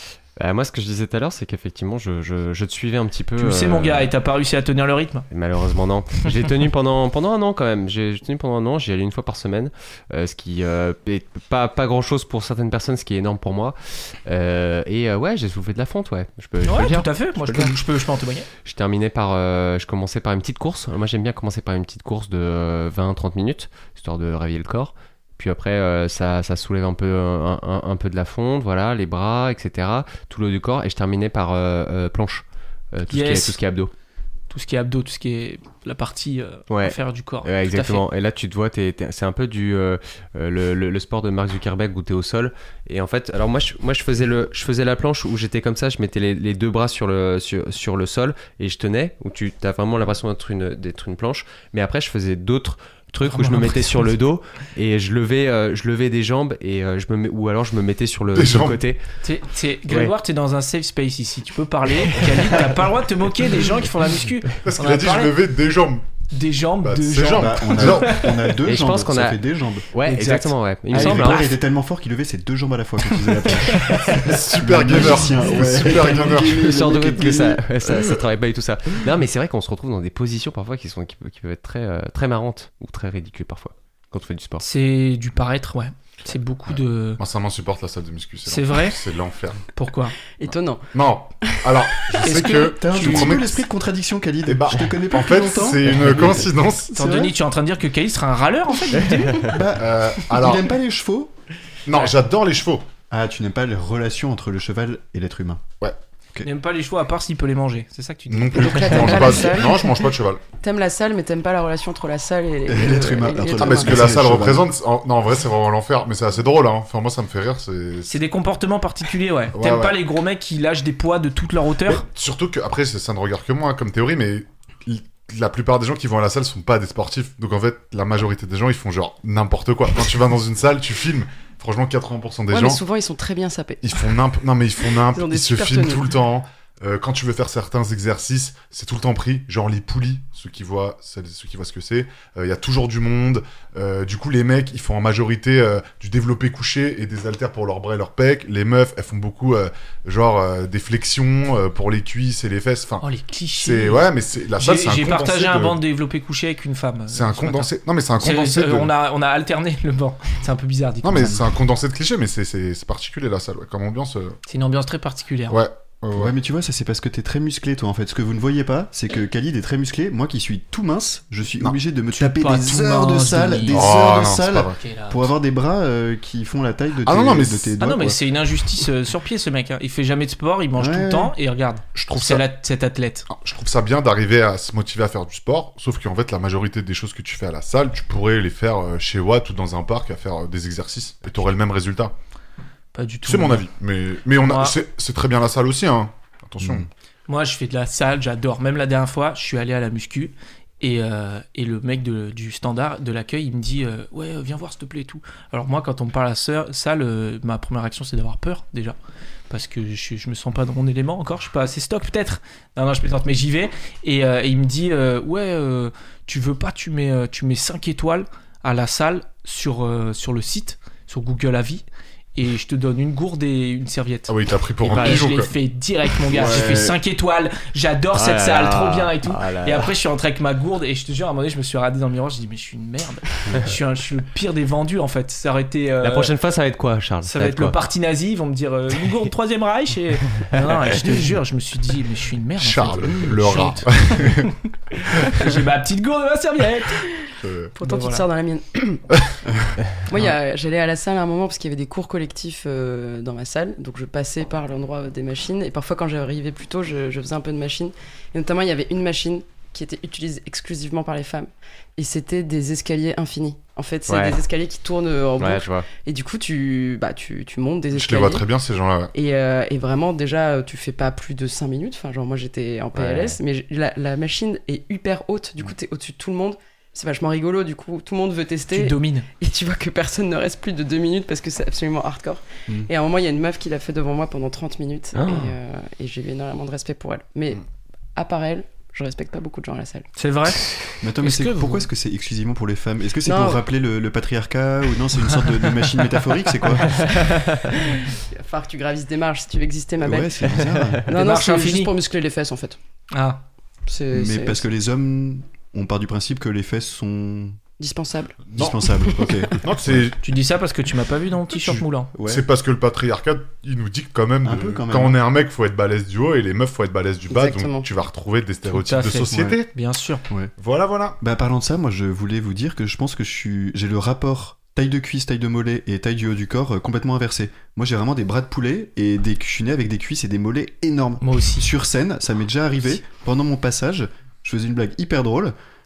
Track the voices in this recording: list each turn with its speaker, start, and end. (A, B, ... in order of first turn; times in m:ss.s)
0:00.4-0:04.1 A
0:03.4-0:05.2 B
0:05.3-0:17.7 A
0:16.6-0:18.5 B
0:18.6-0:33.9 A
0:33.1-0:33.6 B
0:34.5-0:38.0 B
0:36.7-0:59.0 A
0:53.2-0:54.1 B
0:58.3-0:58.8 C
0:59.2-1:05.4 B
0:59.9-1:00.1 A
1:02.1-1:02.5 A
1:04.6-1:06.0 C
1:06.3-1:08.5 B
1:06.8-1:08.6 C
1:07.3-1:09.8 D
1:08.6-1:09.4 A
1:09.9-1:11.5 A
1:10.0-1:11.6 B
1:10.9-1:17.6 D
1:13.1-1:14.2 B
1:14.1-1:16.7 C
1:16.6-1:24.6 A
1:24.6-1:27.2 B
1:26.7-1:29.6 C
1:28.4-1:29.0 B
1:29.7-1:30.1 B
1:30.4-1:32.1 E
1:30.9-1:33.6 C
1:32.2-1:33.5 B
1:32.2-1:36.4 D
1:34.5-1:37.1 C
1:36.9-1:39.5 B
1:37.0-1:37.3 D
1:39.1-1:39.5 A
1:39.5-1:41.3 D
1:39.8-1:40.6 C
1:41.9-1:42.9 C
1:43.1-1:45.6 D
1:46.4-1:49.4 B
1:48.3-1:50.4 C
1:48.6-1:49.9 E
1:50.6-1:54.0 E
1:52.7-1:54.6 D
1:53.6-1:58.1 C
1:58.1-2:02.0 B
1:59.5-2:00.0 C
2:01.8-2:12.8 C
2:12.5-2:14.0 E
2:13.8-2:35.8 C
2:15.0-2:16.1 E
2:33.0-2:41.4 B
2:37.1-2:38.9 C
2:41.0-2:44.4 C
2:44.5-2:45.6 B
2:45.5-2:46.3 C
2:46.1-2:58.2 D
2:52.1-2:53.9 B
2:53.7-2:54.8 C
2:54.7-2:55.3 B
2:57.0-2:57.8 C
2:57.8-3:03.3 B
3:00.8-3:01.3 D
3:01.9-3:02.4 C
3:03.3-3:12.1 C
3:12.9-3:13.6 B
3:13.2-3:16.9 C
3:14.4-3:14.8 B
3:17.3-3:29.0 B
3:29.5-3:41.8 B
3:42.4-3:44.3 B
3:44.3-3:45.5 C
3:44.8-3:45.2 A
3:44.9-3:56.3 B
3:46.3-3:47.0 D
3:48.1-3:49.9 A
3:56.0-3:57.7 A
3:57.2-4:07.2 B
4:00.5-4:01.2 A
4:02.6-4:04.6 C
4:07.4-4:07.7 C
4:07.8-4:09.0 E
4:07.8-4:08.2 B
4:10.0-4:28.5 E
4:24.1-4:24.4 A
4:25.4-4:25.9 A
4:27.9-4:29.1 C
4:29.1-4:47.6 E
4:32.9-4:33.4 A
4:38.7-4:39.3 B
4:45.1-4:45.5 A
4:48.1-4:50.1 E
4:50.2-4:51.9 B
4:51.0-4:57.1 D
4:53.2-4:53.6 E
4:56.9-4:57.7 A
4:58.1-5:02.8 E
5:00.0-5:01.0 D
5:00.6-5:00.9 A
5:01.1-5:01.9 B
5:03.1-5:03.4 B
5:03.8-5:04.6 E
5:04.1-5:07.6 D
5:07.8-5:09.6 E
5:08.5-5:10.2 C
5:08.6-5:10.1 D
5:10.2-5:12.1 B
5:11.6-5:12.4 D
5:12.2-5:19.7 C
5:14.4-5:15.2 D
5:17.3-5:17.9 E
5:18.7-5:20.2 B
5:20.6-5:21.2 C
5:21.2-5:35.5 D
5:31.2-5:31.7 B